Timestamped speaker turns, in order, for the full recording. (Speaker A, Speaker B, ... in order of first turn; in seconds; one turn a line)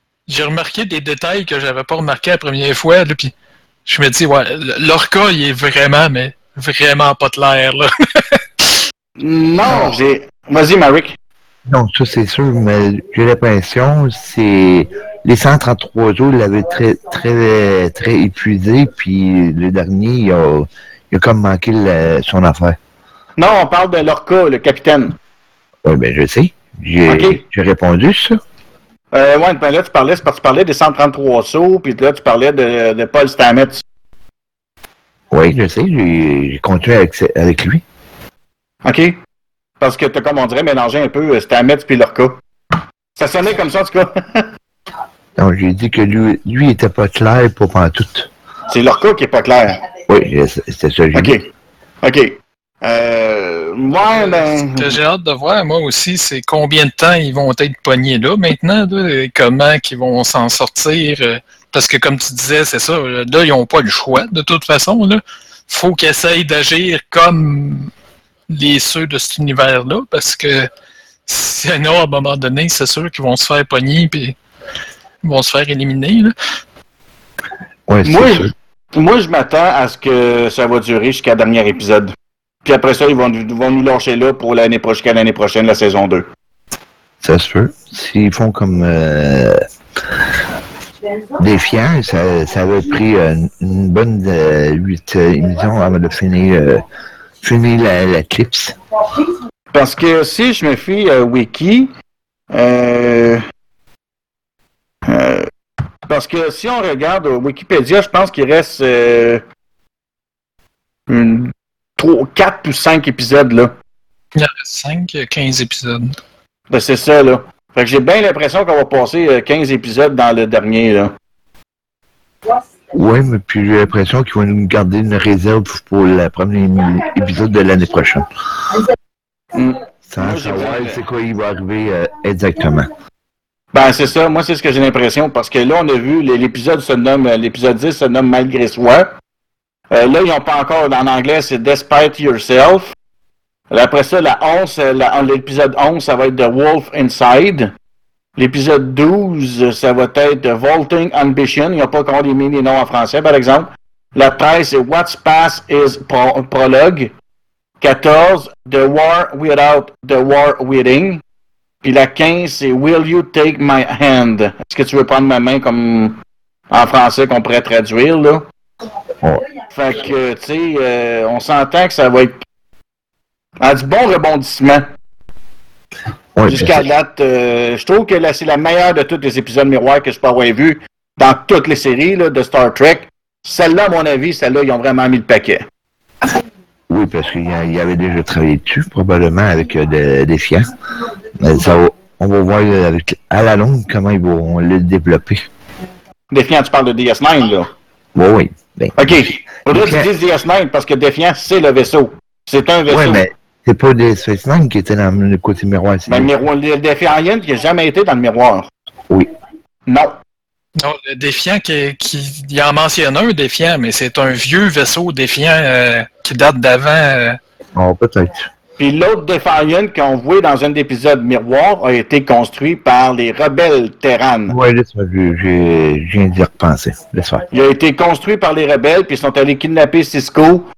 Speaker A: 0.3-3.3
Speaker A: 3.9-8.7
Speaker B: 9.2-11.2
Speaker C: 11.7-22.8
Speaker B: 23.4-25.1
Speaker C: 25.8-28.4
Speaker B: 27.1-27.4
Speaker B: 29.1-33.8
Speaker C: 35.3-37.8
Speaker B: 38.8-39.2
Speaker B: 39.8-42.4
Speaker B: 43.2-44.5
Speaker C: 45.4-48.3
Speaker B: 48.7-49.8
Speaker C: 50.1-51.4
Speaker B: 51.1-51.4
Speaker B: 52.0-55.0
Speaker A: 54.2-67.9
Speaker A: 68.5-70.7
Speaker A: 71.3-74.3
Speaker A: 75.2-76.3
Speaker C: 77.9-78.5
Speaker B: 78.0-82.1
Speaker B: 82.6-86.3
Speaker C: 87.2-89.6
Speaker C: 91.4-96.8
Speaker C: 97.4-98.8
Speaker B: 99.7-101.9
Speaker B: 102.5-103.4
Speaker B: 105.1-105.5
Speaker B: 106.1-109.4
Speaker B: 111.1-113.7
Speaker A: 114.3-116.2
Speaker B: 116.7-121.1
Speaker C: 122.9-128.2
Speaker B: 129.5-131.0
Speaker C: 130.1-132.9
Speaker B: 133.7-139.1
Speaker B: 139.9-142.9
Speaker B: 143.7-147.7
Speaker B: 148.4-157.1
Speaker B: 157.8-161.2
Speaker B: 161.8-166.2
Speaker B: 166.7-168.4
Speaker B: 169.7-172.4
Speaker B: 173.6-174.8
Speaker C: 176.3-176.8
Speaker B: 176.5-185.7
Speaker C: 186.9-190.7
Speaker C: 191.3-195.5
Speaker B: 196.3-197.7
Speaker C: 198.1-200.1
Speaker B: 199.0-203.2
Speaker C: 202.9-206.3
Speaker B: 206.1-208.7
Speaker B: 209.9-210.2
Speaker A: 210.8-217.4
Speaker C: 217.7-218.5
Speaker B: 218.8-224.6
Speaker C: 224.5-227.5
Speaker B: 227.5-230.6